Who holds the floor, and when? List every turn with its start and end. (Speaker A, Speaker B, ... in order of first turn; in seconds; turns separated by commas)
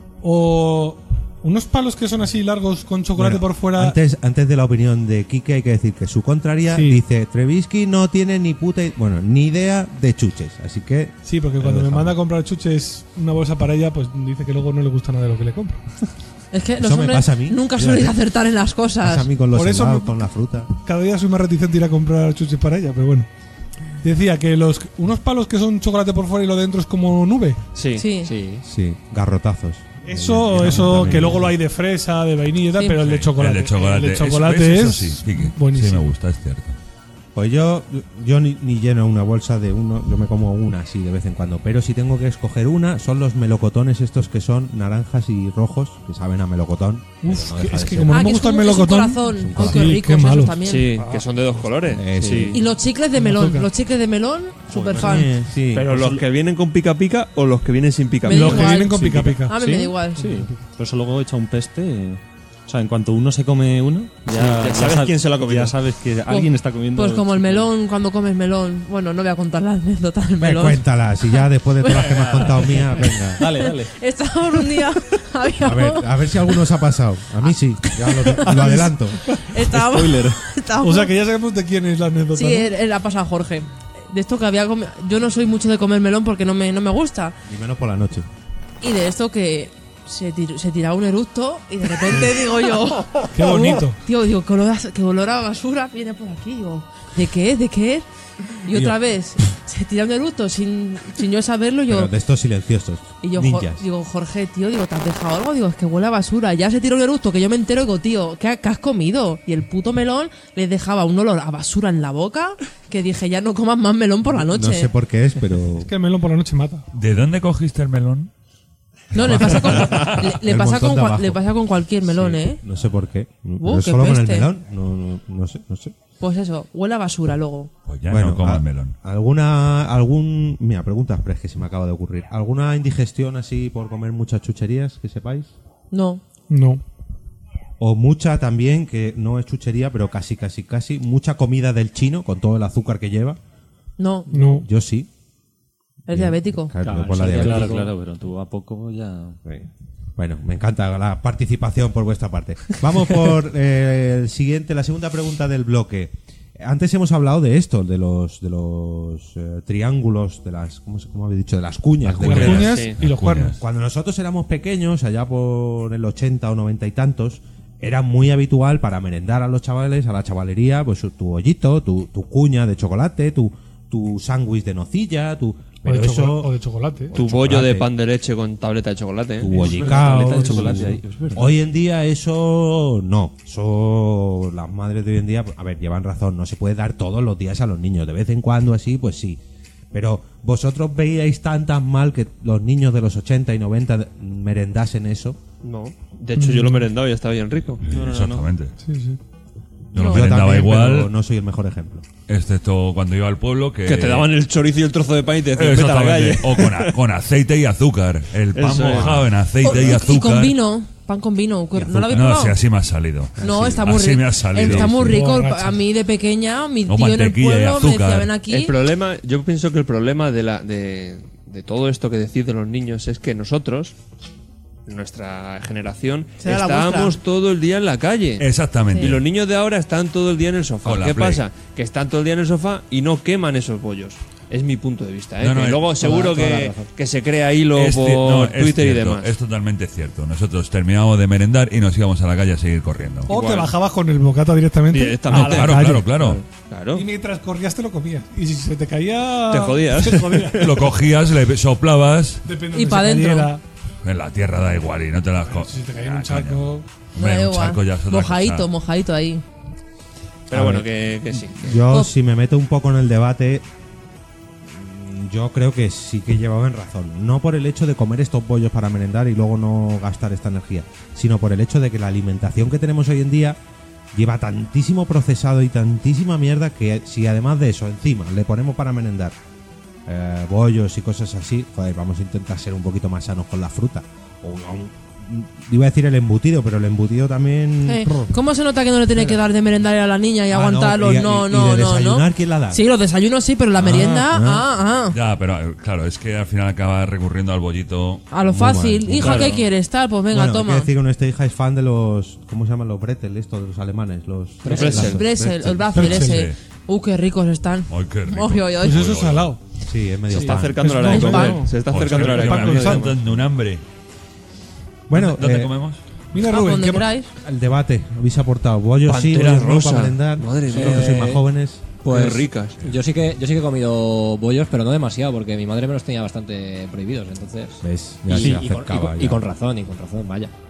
Speaker A: 0.2-4.0, Speaker B: 3.1-12.2, Speaker A: 6.7-7.0, Speaker A: 11.2-15.9, Speaker C: 16.5-19.3, Speaker B: 16.8-18.2, Speaker B: 19.0-20.7, Speaker A: 19.5-20.2, Speaker A: 20.8-23.3, Speaker A: 24.0-27.6, Speaker D: 27.8-28.1, Speaker C: 28.0-28.3, Speaker E: 28.2-28.6, Speaker B: 28.6-31.6, Speaker A: 30.0-36.1, Speaker F: 33.0-36.8, Speaker B: 37.4-48.3, Speaker A: 47.2-51.2, Speaker C: 48.1-50.9, Speaker B: 49.4-50.0, Speaker D: 50.6-52.4, Speaker B: 51.9-52.6, Speaker G: 52.2-52.6, Speaker C: 52.5-55.3, Speaker A: 53.1-53.7, Speaker B: 54.7-56.2, Speaker D: 55.7-59.0, Speaker A: 58.2-59.6, Speaker C: 58.2-60.4, Speaker G: 59.0-67.7, Speaker A: 60.2-60.6, Speaker D: 64.3-65.8, Speaker C: 66.3-70.9, Speaker B: 70.4-73.4, Speaker C: 71.8-76.1, Speaker G: 73.4-73.9, Speaker B: 75.6-79.2, Speaker C: 78.2-81.1, Speaker G: 79.5-80.4, Speaker A: 80.8-82.7, Speaker C: 82.3-87.4, Speaker B: 87.5-88.3, Speaker C: 88.8-98.1, Speaker A: 93.3-94.0, Speaker C: 98.6-102.1, Speaker B: 98.7-99.0, Speaker B: 101.9-103.8, Speaker C: 103.2-114.9, Speaker B: 114.3-115.9, Speaker A: 115.8-116.9, Speaker F: 116.9-118.3, Speaker C: 119.1-122.6, Speaker B: 119.1-121.5, Speaker B: 122.1-126.0, Speaker C: 123.6-124.5, Speaker C: 126.2-127.7, Speaker F: 127.9-128.9, Speaker B: 128.1-135.5, Speaker C: 135.9-136.2, Speaker A: 136.5-136.8, Speaker B: 137.8-143.4, Speaker C: 144.0-144.3, Speaker A: 144.3-144.7, Speaker B: 144.3-145.1, Speaker C: 146.1-146.8, Speaker B: 146.1-147.9, Speaker E: 146.8-147.9, Speaker G: 146.8-149.4, Speaker B: 149.4-162.9, Speaker F: 162.1-163.6, Speaker A: 162.2-163.6, Speaker D: 162.4-163.0, Speaker B: 163.4-176.5, Speaker A: 175.8-177.1, Speaker B: 177.1-177.9, Speaker D: 177.2-179.6, Speaker B: 179.4-189.4, Speaker G: 179.5-181.6, Speaker A: 179.6-180.4, Speaker B: 189.9-195.4, Speaker D: 195.6-197.8, Speaker A: 196.4-196.9, Speaker G: 197.8-198.5, Speaker F: 197.8-198.8, Speaker A: 198.8-199.2, Speaker B: 199.9-202.1, Speaker F: 199.9-201.1, Speaker C: 199.9-200.2, Speaker F: 202.3-204.3, Speaker D: 203.8-206.9, Speaker F: 205.6-210.6, Speaker D: 208.5-209.3, Speaker C: 209.6-212.6, Speaker B: 211.8-212.2, Speaker F: 212.0-215.2, Speaker C: 213.4-218.7, Speaker B: 213.4-213.9, Speaker A: 214.7-215.8, Speaker F: 216.9-218.3, Speaker D: 218.5-223.9, Speaker D: 224.9-228.5, Speaker C: 226.4-227.2, Speaker F: 228.4-229.2, Speaker D: 229.0-239.3, Speaker F: 230.8-231.4, Speaker F: 235.4-235.9, Speaker E: 236.0-236.9, Speaker F: 237.7-243.3, Speaker A: 243.3-246.3, Speaker D: 243.3-243.7, Speaker D: 244.9-247.1, Speaker F: 245.3-246.4, Speaker A: 246.9-250.9, Speaker D: 249.5-250.8, Speaker F: 250.6-252.4, Speaker A: 252.4-253.6, Speaker C: 252.7-253.5, Speaker F: 254.0-258.7, Speaker A: 255.4-256.9, Speaker C: 257.2-259.4, Speaker D: 260.5-261.8, Speaker B: 260.5-263.6, Speaker B: 264.6-273.6, Speaker B: 274.1-279.4, Speaker B: 280.1-288.4, Speaker C: 287.9-295.2, Speaker B: 289.1-289.4, Speaker B: 290.5-292.8, Speaker B: 293.8-294.7, Speaker F: 295.1-298.2, Speaker C: 298.3-300.9, Speaker B: 298.4-299.6, Speaker G: 299.2-299.6, Speaker B: 300.3-306.1, Speaker E: 304.6-305.1, Speaker D: 304.7-305.2, Speaker C: 304.7-309.1, Speaker A: 305.9-306.5, Speaker F: 306.0-306.6, Speaker F: 307.9-309.5, Speaker A: 308.8-309.6, Speaker B: 309.9-311.0, Speaker D: 310.3-313.1, Speaker A: 310.3-313.2, Speaker C: 311.1-311.6, Speaker F: 311.9-313.8, Speaker B: 315.1-315.7, Speaker F: 315.1-316.0, Speaker A: 316.3-317.1, Speaker C: 316.4-317.3, Speaker B: 317.4-321.8, Speaker D: 319.1-321.3, Speaker E: 320.7-321.4, Speaker E: 322.0-330.5, Speaker D: 322.1-322.8, Speaker B: 327.8-329.4, Speaker G: 328.4-328.7